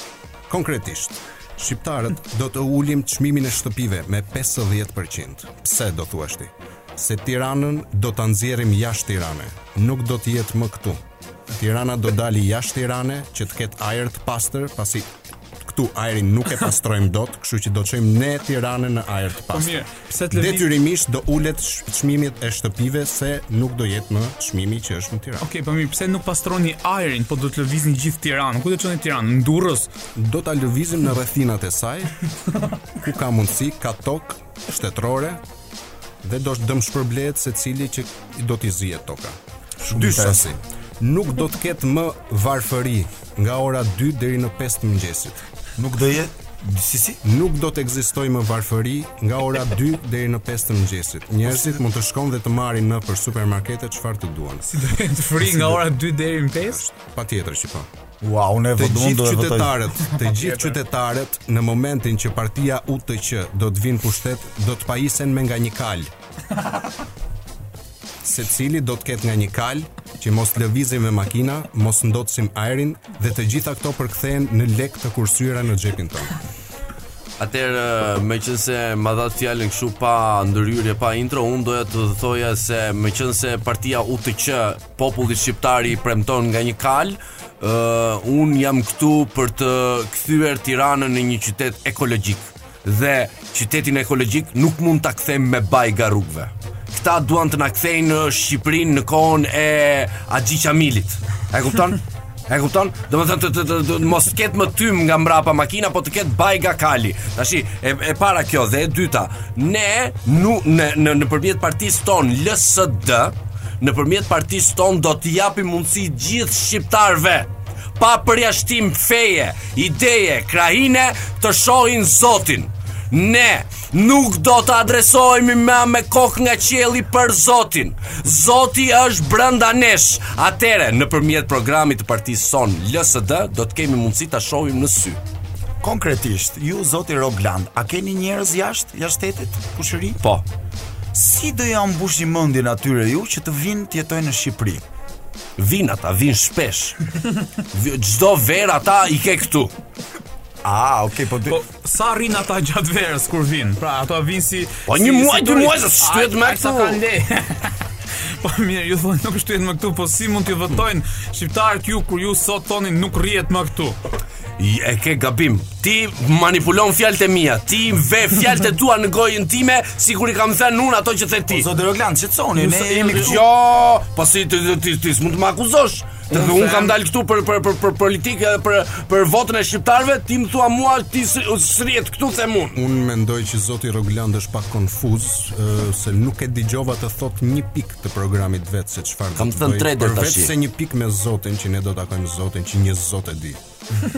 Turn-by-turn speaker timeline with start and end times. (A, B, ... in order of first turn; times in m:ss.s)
0:00.5-0:15.1 A
0:15.6-0:25.4 A
0:19.5-0:20.7 B
0:25.4-0:29.9 B
0:30.2-0:32.3 A
0:32.9-0:35.4 A
0:36.2-0:39.4 A
0:39.8-0:40.5 C
0:39.9-0:45.4 A
0:45.8-0:47.2 C
0:47.2-0:54.7 A
0:51.4-0:51.7 C
0:54.7-0:56.8 B
0:56.6-0:57.9 A
0:58.2-0:59.8 C
0:58.8-1:06.1 A
1:08.2-1:16.4 A
1:17.4-2:15.2 D
2:15.8-2:20.2 C
2:21.1-2:24.8 C
2:25.6-2:27.0 D
2:27.7-2:29.7 D
2:30.6-2:31.6 C
2:31.5-2:44.0 B
2:34.9-2:37.0 D
2:44.6-2:51.7 D
2:51.5-2:53.4 C
2:52.6-3:02.8 D
2:56.4-2:56.9 C
3:02.7-3:13.6 A
3:09.4-3:10.5 D